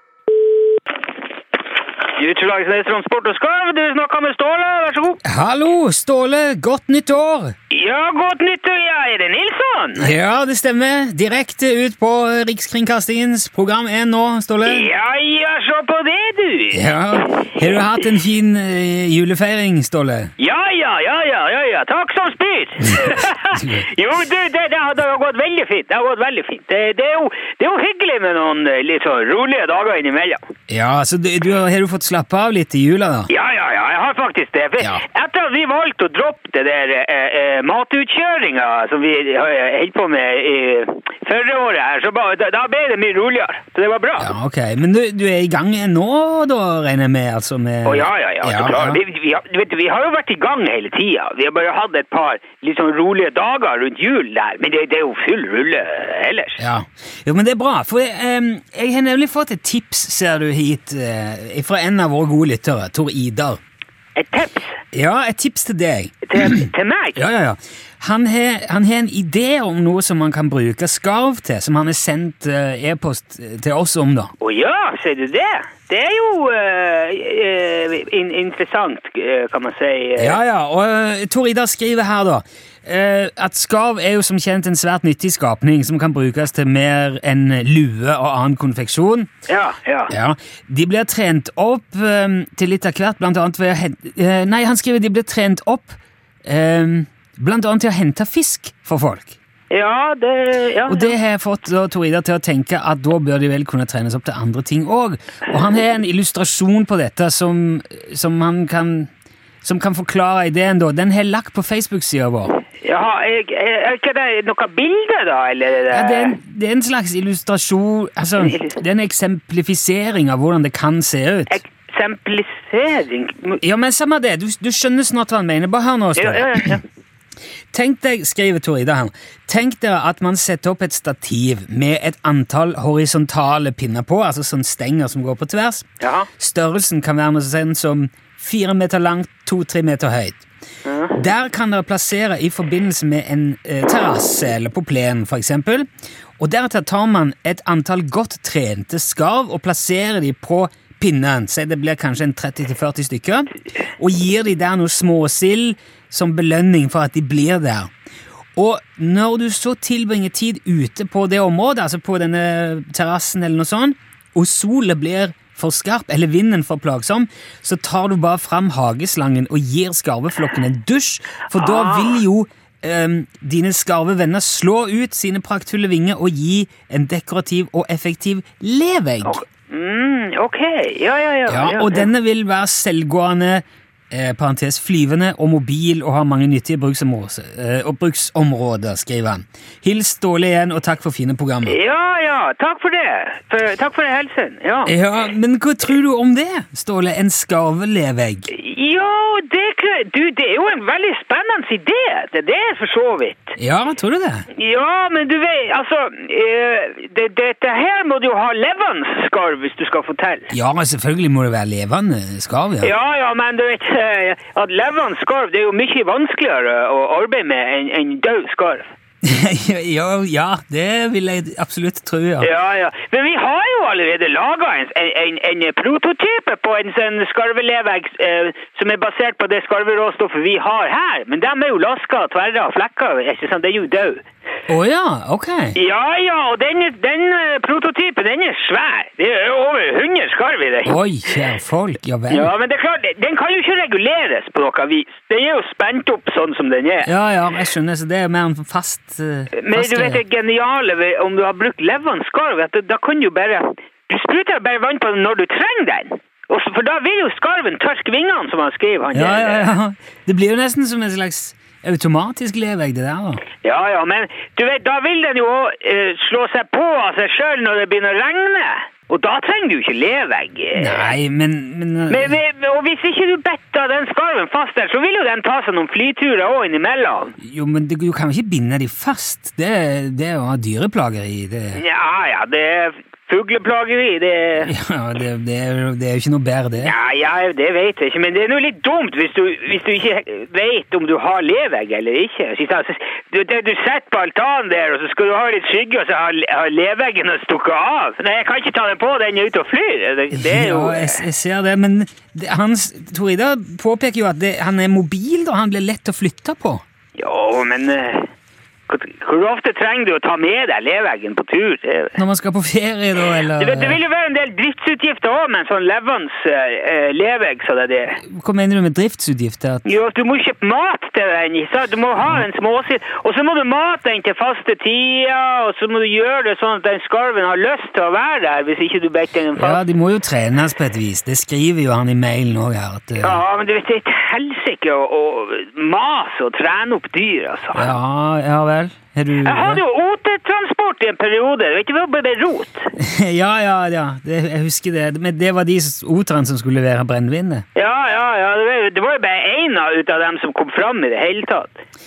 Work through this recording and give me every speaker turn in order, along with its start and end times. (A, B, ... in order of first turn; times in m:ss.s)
0:02.1-0:05.2 A
0:05.2-0:07.5 B
0:07.7-0:10.1 A
0:10.0-0:14.9 B
0:14.6-0:17.5 A
0:16.7-0:20.3 B
0:20.4-0:30.4 A
0:23.0-0:23.8 B
0:30.7-0:33.3 B
0:33.3-0:44.3 A
0:44.2-0:49.0 B
0:47.8-0:56.6 A
0:56.6-1:03.6 B
1:04.1-1:04.8 A
1:04.9-1:14.3 B
1:06.2-1:07.2 A
1:14.4-1:20.4 A
1:20.2-1:29.3 B
1:29.5-1:30.1 A
1:30.1-1:39.3 B
1:39.7-1:41.2 A
1:40.8-1:49.1 B
1:49.6-1:52.6 B
1:52.8-1:56.4 A
1:55.9-2:01.6 B
1:58.4-1:58.8 A
2:01.5-2:03.6 A
2:03.6-2:06.8 B
2:06.2-2:06.8 A
2:07.7-2:15.9 B
2:16.0-2:16.3 A
2:16.4-2:20.4 B
2:20.8-2:21.2 A
2:21.2-2:25.9 B
2:26.4-2:37.9 B
2:38.6-2:59.4 B
2:51.5-2:52.2 A
2:59.2-3:02.1 A
3:01.5-3:11.8 B
3:11.6-3:14.9 A
3:14.8-3:18.5 B
3:18.5-3:23.6 A
3:23.6-3:24.5 B
3:24.5-3:30.5 A
3:30.5-3:32.9 B
3:32.8-3:38.9 A
3:39.2-3:42.5 B
3:42.4-3:54.2 A
3:54.7-3:55.8 B
3:55.7-4:01.0 A
4:00.8-4:02.5 B
4:02.3-4:07.1 A
4:07.0-4:10.2 B
4:09.5-4:19.7 A
4:19.1-4:23.4 B
4:23.6-4:31.2 A
4:30.7-4:32.4 B
4:32.1-4:37.4 A
4:37.4-4:41.8 B
4:41.7-4:44.7 A
4:44.6-4:46.9 B
4:46.8-5:01.2 A
5:00.3-5:06.8 B
5:07.2-5:08.3 A
5:08.9-5:12.2 A
5:12.2-5:14.0 B
5:13.4-5:18.2 A
5:18.3-5:19.8 B
5:19.8-5:29.8 A
5:29.6-5:33.4 B
5:33.2-5:38.0 A
5:37.7-5:39.8 B
5:39.4-5:42.9 A
5:43.0-5:47.6 B
5:47.7-5:51.8 A